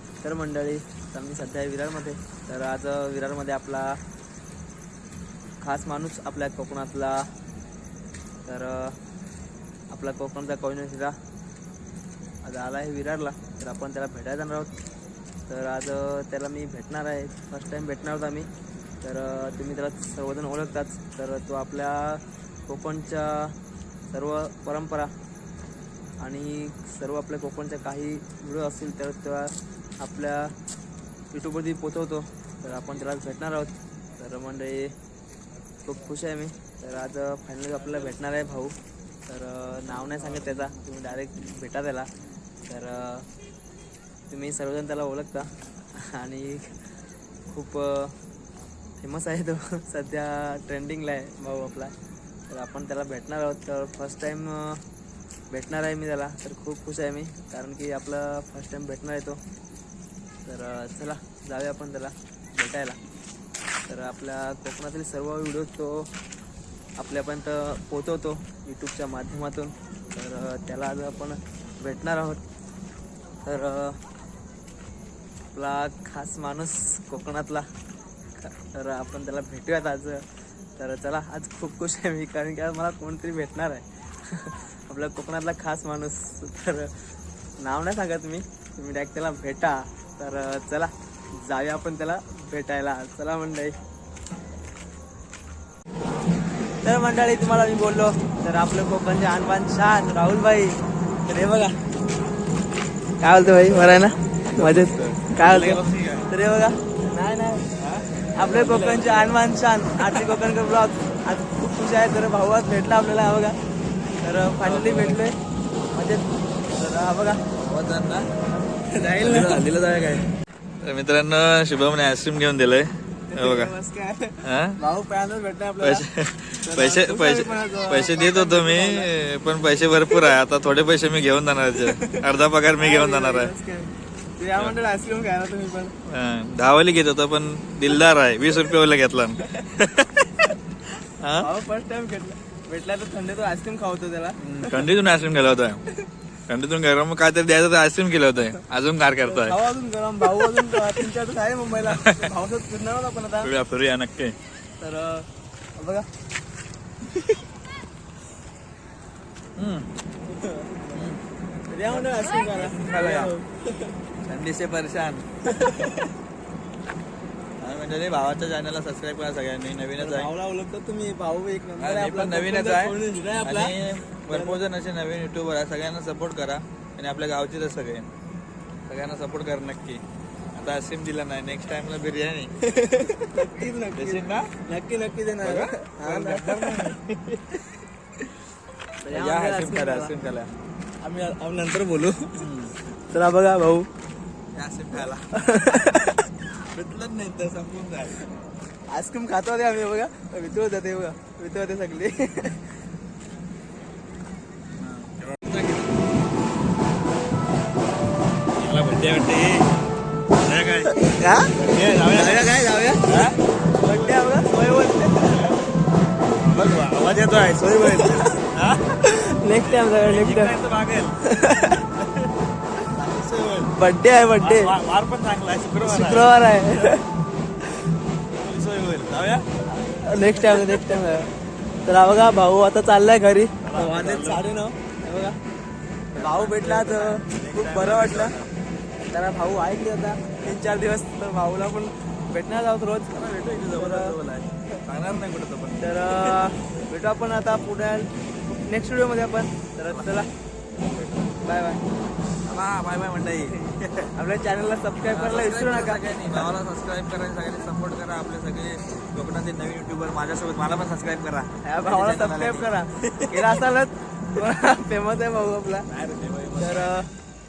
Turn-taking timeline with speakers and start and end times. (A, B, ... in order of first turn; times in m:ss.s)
0:00.2-0:04.0 A
0:05.6-0:07.3 A
0:08.5-0:09.0 A
0:09.9-0:11.2 A
0:12.4-0:14.7 A
0:15.5-0:18.5 A
0:19.0-0:23.6 A
0:24.1-0:25.1 A
0:26.2-0:30.5 A
0:31.3-0:34.9 A
0:35.8-0:38.8 A
0:39.3-0:42.1 A
0:42.7-0:43.3 A
0:44.3-0:46.8 A
0:47.5-0:48.2 A
0:49.0-0:51.9 A
0:52.5-0:54.8 A
0:55.5-0:59.4 A
1:00.5-1:03.0 A
1:03.9-1:06.1 A
1:07.0-1:12.4 A
1:13.4-1:14.0 A
1:15.5-1:17.7 A
1:18.4-1:20.3 A
1:20.8-1:26.9 A
1:27.6-1:33.8 A
1:36.8-1:41.8 A
1:43.2-1:47.6 A
1:44.5-1:46.3 B
1:47.8-1:49.3 B
1:48.4-1:53.6 A
1:50.0-1:50.3 B
1:54.2-1:55.4 A
1:54.6-1:55.2 B
1:55.9-1:57.4 A
1:57.6-1:58.3 B
1:58.5-1:59.7 A
1:59.2-2:00.3 B
2:00.8-2:03.7 B
2:03.3-2:06.1 A
2:04.4-2:04.8 B
2:05.8-2:13.5 B
2:06.6-2:09.1 A
2:10.0-2:10.4 A
2:11.8-2:12.2 A
2:12.8-2:15.9 A
2:16.1-2:20.2 B
2:21.2-2:21.5 B
2:21.4-2:24.8 A
2:24.4-2:25.8 B
2:26.5-2:29.6 B
2:29.2-2:33.5 A
2:31.9-2:32.3 B
2:33.4-2:34.4 B
2:34.8-2:35.3 A
2:35.8-2:36.1 A
2:39.6-2:39.9 B
2:40.3-2:41.1 A
2:40.9-2:41.2 B
2:41.7-2:44.0 A
2:41.9-2:43.3 B
2:44.2-2:45.2 B
2:45.5-2:46.1 A
2:47.6-2:50.3 B
2:50.0-2:53.8 A
2:51.8-2:58.1 B
2:54.3-2:54.6 A
2:58.9-3:00.0 B
3:00.6-3:02.5 B
3:02.6-3:07.0 A
3:03.9-3:04.5 B
3:05.4-3:07.4 B
3:09.0-3:10.1 A
3:09.1-3:10.5 B
3:11.0-3:12.3 A
3:12.3-3:12.7 B
3:13.1-3:13.9 A
3:14.5-3:15.3 B
3:15.3-3:16.3 A
3:16.7-3:18.2 B
3:18.9-3:22.6 A
3:24.8-3:25.9 B
3:28.6-3:29.7 B
3:30.4-3:32.5 B
3:30.9-3:31.6 A
3:32.1-3:35.6 A
3:33.0-3:35.6 B
3:36.4-3:39.0 B
3:37.6-3:38.4 A
3:39.0-3:40.6 A
3:39.6-3:41.2 B
3:41.2-3:41.8 A
3:42.0-3:42.3 B
3:42.9-3:43.7 B
3:43.7-3:44.7 A
3:44.4-3:46.3 B
3:45.8-3:47.1 A
3:48.4-3:49.5 B
3:49.9-3:51.3 A
3:50.1-3:51.1 B
3:51.8-3:55.4 A
3:53.6-3:54.5 B
3:56.1-3:58.5 B
3:56.2-3:58.4 A
3:59.1-4:03.2 A
4:03.1-4:06.4 B
4:03.7-4:04.2 A
4:05.8-4:08.1 A
4:08.7-4:10.3 A
4:10.8-4:11.4 B
4:11.4-4:11.8 A
4:12.4-4:14.1 B
4:14.2-4:16.5 A
4:15.0-4:23.6 B
4:21.6-4:25.9 A
4:25.9-4:27.1 B
4:26.6-4:27.1 A